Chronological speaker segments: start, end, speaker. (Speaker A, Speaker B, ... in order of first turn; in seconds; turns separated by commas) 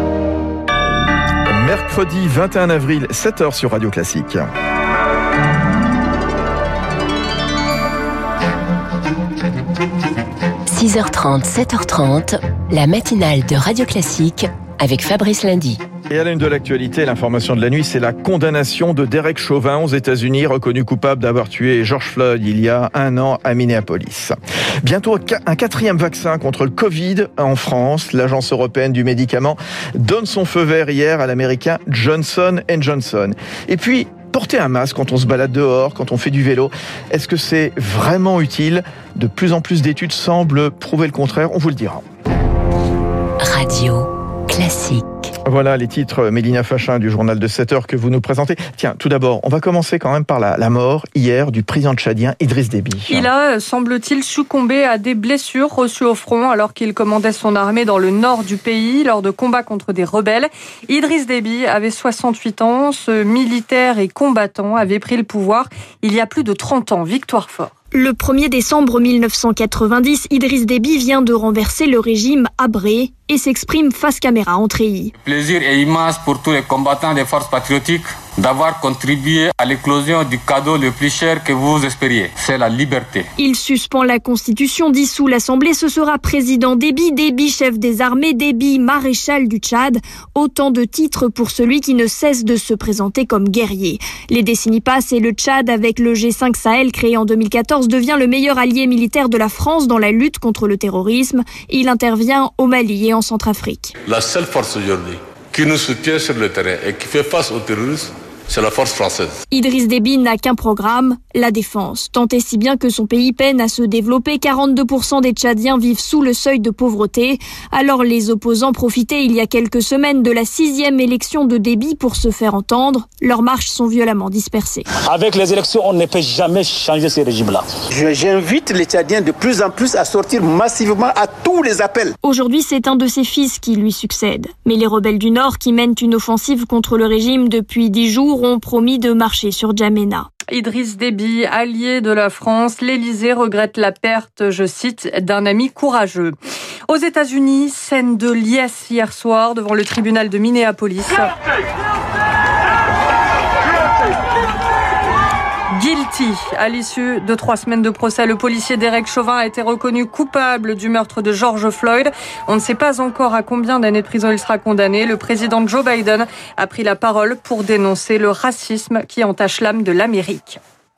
Speaker A: 1.5-4.5, Speaker B: 10.7-15.8, Speaker A: 16.1-42.0, Speaker B: 43.4-45.3, Speaker A: 45.4-53.3, Speaker C: 53.1-67.7, Speaker D: 67.9-75.1, Speaker E: 75.2-83.3, Speaker D: 83.3-103.9, Speaker F: 104.1-109.3, Speaker D: 109.5-124.8, Speaker G: 125.0-127.7, Speaker H: 128.0-132.1, Speaker D: 132.2-140.3, Speaker C: 140.5-146.3, Speaker C: 146.9-151.3, Speaker C: 155.7-170.6